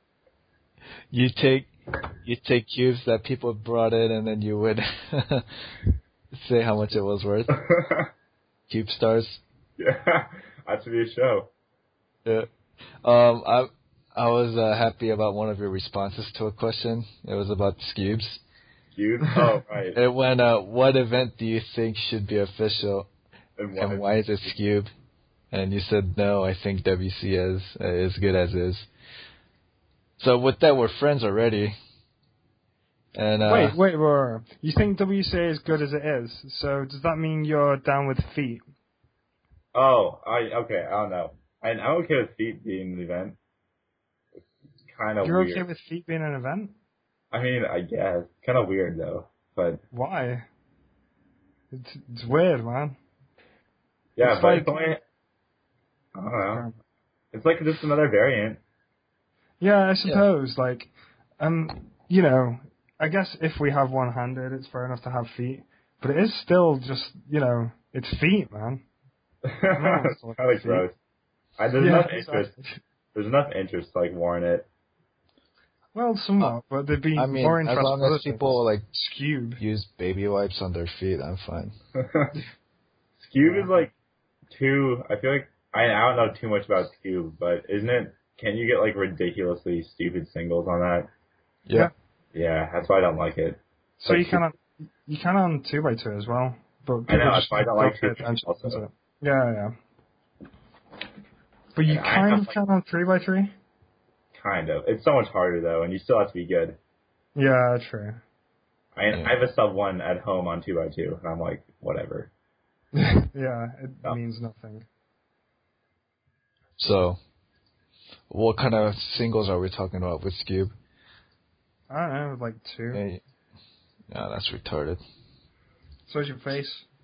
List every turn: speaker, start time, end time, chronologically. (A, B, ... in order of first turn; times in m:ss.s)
0:01.1-0:01.7 A
0:02.2-0:05.5 A
0:06.3-0:07.6 A
0:07.6-0:08.1 B
0:08.7-0:09.4 A
0:09.8-0:11.5 B
0:13.0-0:18.4 A
0:19.0-0:20.0 B
0:20.0-0:23.1 A
0:23.6-0:24.0 B
0:23.8-0:24.9 A
0:25.5-0:28.9 A
0:30.2-0:31.8 A
0:33.2-0:33.8 A
0:33.4-0:38.6 C
0:39.7-0:43.4 B
0:44.9-0:45.6 B
0:45.2-0:46.7 C
0:47.3-0:49.8 B
0:49.9-0:50.5 C
0:51.7-0:53.0 C
0:54.2-0:55.0 B
0:54.2-0:54.8 C
0:56.2-0:56.7 B
0:56.5-0:56.8 C
0:57.3-0:58.6 B
0:59.6-1:08.8 C
1:09.4-1:11.0 B
1:09.8-1:10.9 C
1:11.6-1:12.5 B
1:11.8-1:12.8 C
1:13.1-1:14.7 B
1:16.0-1:19.6 C
1:17.2-1:18.8 A
1:19.6-1:21.7 A
1:22.0-1:22.3 B
1:23.2-1:23.9 B
1:23.4-1:23.7 C
1:24.5-1:31.1 B
1:32.3-1:34.4 B
1:34.0-1:39.7 C
1:37.1-1:38.8 B
1:41.8-1:43.5 C
1:41.9-1:42.6 B
1:44.3-1:46.8 B
1:47.4-1:48.2 C
1:49.0-1:52.3 B
1:53.0-1:54.9 C
1:56.8-1:57.2 A
1:58.3-2:00.7 A
2:01.9-2:03.0 C
2:02.9-2:03.2 A
2:04.1-2:05.0 A
2:06.1-2:06.9 C